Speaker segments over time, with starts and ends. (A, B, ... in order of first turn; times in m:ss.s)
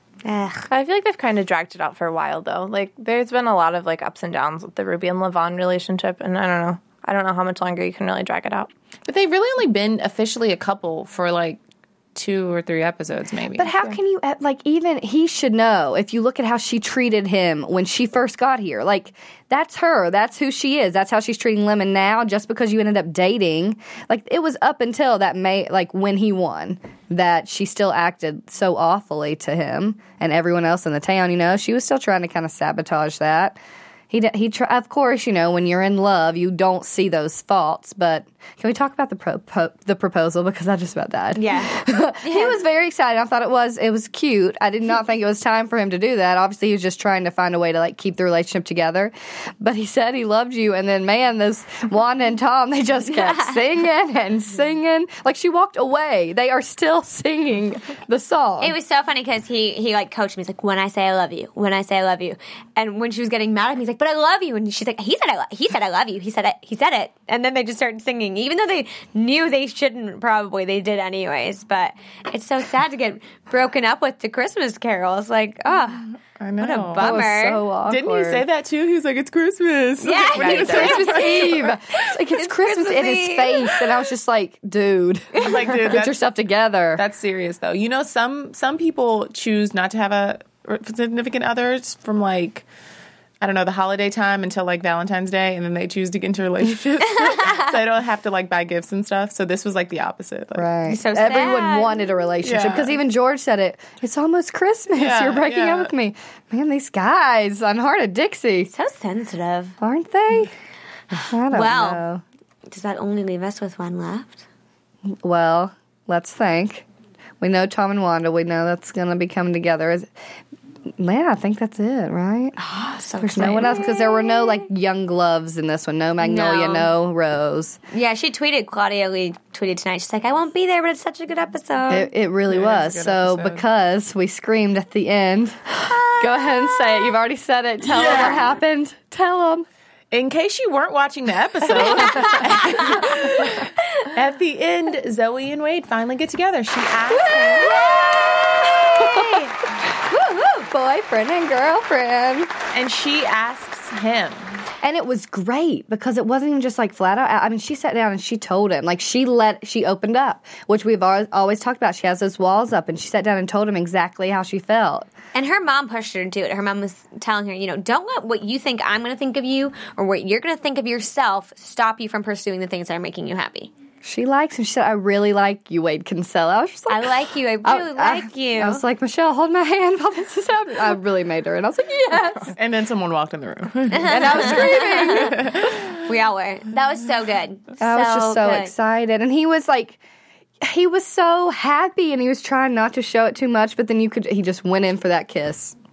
0:00.2-0:00.7 A
0:00.7-0:08.7 B
0:09.1-0:11.6 C
0:12.2-0:14.0 C
0:13.6-0:33.6 D
0:34.1-0:58.8 D
0:41.4-0:42.6 A
0:53.1-0:53.6 A
0:58.6-1:17.6 A
1:16.4-1:17.2 C
1:17.0-1:18.5 D
1:17.8-1:21.5 C
1:20.0-1:23.7 A
1:20.4-1:27.0 D
1:25.4-1:26.2 C
1:27.0-1:32.6 C
1:33.4-1:40.7 C
1:40.6-1:48.7 D
1:40.9-1:41.9 A
1:42.4-1:43.0 C
1:44.9-1:45.9 C
1:48.7-1:49.8 A
1:49.8-1:50.5 D
1:51.2-1:52.2 D
1:51.5-1:52.0 A
1:52.7-1:54.4 A
1:55.1-1:56.8 D
1:57.4-2:00.1 D
2:01.0-2:02.6 D
2:02.6-2:04.6 A
2:03.2-2:07.8 D
2:06.2-2:06.9 A
2:07.9-2:12.1 A
2:11.9-2:19.7 D
2:12.5-2:13.6 C
2:15.8-2:17.1 A
2:18.0-2:18.4 C
2:20.1-2:27.7 C
2:22.0-2:22.4 A
2:27.2-2:29.4 D
2:27.4-2:29.5 A
2:30.1-2:30.7 A
2:30.7-2:32.5 D
2:32.7-2:34.5 C
2:34.8-2:45.1 D
2:45.3-2:53.7 A
2:54.0-3:02.5 D
2:56.9-2:58.8 A
3:02.5-3:05.9 C
3:03.9-3:05.3 A
3:04.0-3:05.4 D
3:06.0-3:08.7 A
3:07.8-3:10.0 D
3:10.6-3:15.8 D